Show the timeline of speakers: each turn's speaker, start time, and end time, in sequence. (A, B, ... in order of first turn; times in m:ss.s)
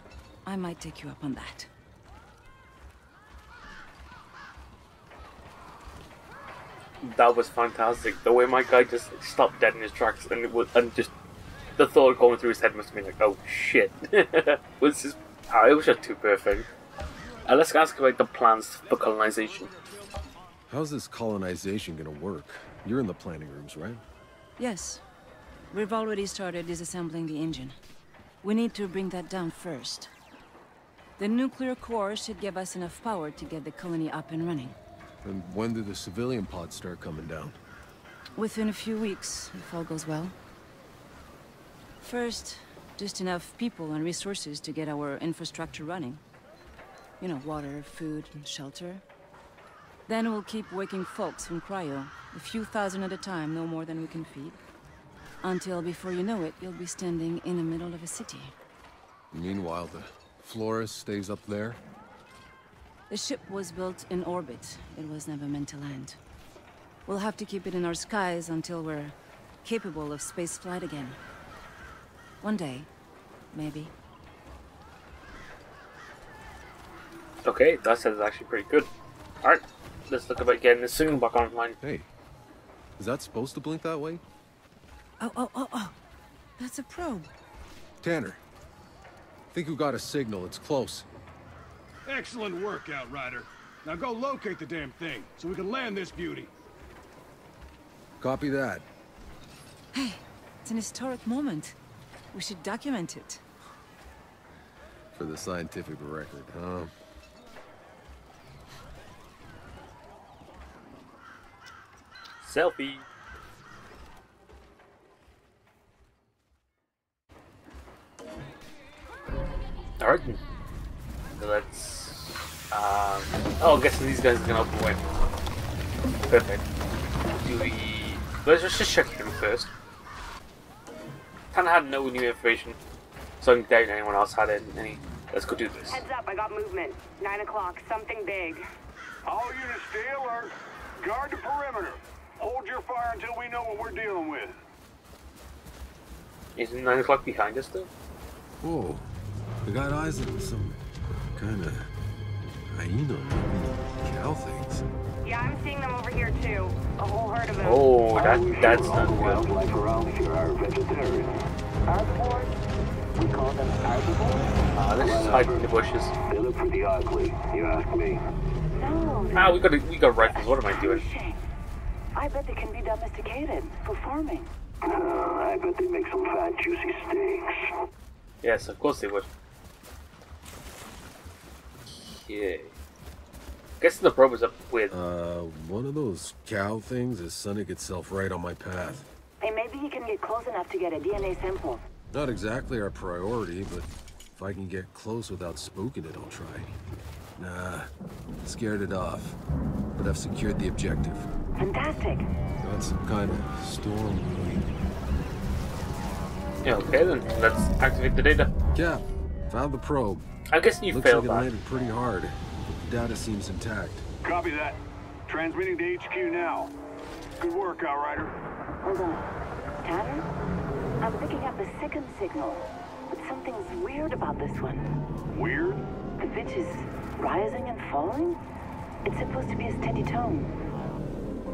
0:00.4-0:01.7 A
0:07.0-0:11.1 B
0:11.8-0:16.7 B
0:17.5-0:19.7 B
0:20.7-0:24.0 C
0:24.6-0:25.0 A
0:25.7-0:27.8 A
0:28.4-0:30.1 A
0:31.2-0:34.8 A
0:35.2-0:37.6 C
0:38.4-0:40.4 A
0:42.0-0:46.2 A
0:47.2-0:49.0 A
0:50.1-0:54.6 A
0:55.4-0:58.5 A
0:59.3-1:01.8 C
1:03.1-1:06.2 A
1:07.0-1:11.2 A
1:12.4-1:12.9 A
1:13.5-1:13.9 A
1:17.4-1:18.9 B
1:19.4-1:21.8 B
1:21.8-1:22.1 C
1:23.0-1:24.2 C
1:25.2-1:26.0 A
1:26.6-1:27.3 A
1:28.0-1:28.4 C
1:29.5-1:31.1 C
1:32.0-1:36.5 D
1:38.2-1:38.8 C
1:39.9-1:41.8 A
1:42.3-1:43.4 A
1:45.1-1:46.9 C
1:52.4-1:53.0 B
2:00.0-2:00.4 B
2:01.4-2:05.0 B
2:06.3-2:06.6 B
2:07.3-2:09.7 B
2:11.5-2:12.7 B
2:13.4-2:16.0 B
2:15.9-2:18.6 E
2:19.2-2:24.6 F
2:26.6-2:27.9 B
2:28.6-2:29.1 C
2:29.6-2:30.8 C
2:31.3-2:31.9 C
2:32.7-2:34.9 C
2:35.2-2:37.9 E
2:37.6-2:39.4 B
2:38.1-2:41.3 G
2:43.2-2:44.4 G
2:44.7-2:46.1 B
2:45.0-2:45.6 G
2:46.3-2:48.2 G
2:48.8-2:51.4 A
2:49.3-2:51.0 B
2:52.1-2:54.5 A
2:54.9-2:57.7 G
2:58.4-2:59.3 B
3:01.9-3:02.8 B
3:03.8-3:04.9 B
3:04.9-3:09.1 C
3:09.4-3:11.8 A
3:12.1-3:16.7 C
3:17.4-3:19.4 C
3:19.9-3:21.3 C
3:21.6-3:22.2 A
3:22.6-3:24.7 C
3:26.6-3:28.5 B
3:28.7-3:30.2 C
3:30.5-3:31.5 B
3:30.8-3:34.0 C
3:34.2-3:36.7 F
3:37.4-3:38.3 F
3:38.8-3:39.3 A
3:39.8-3:40.2 A
3:41.0-3:44.8 A
3:45.3-3:45.8 F
3:46.2-3:48.4 A
3:49.0-3:50.5 A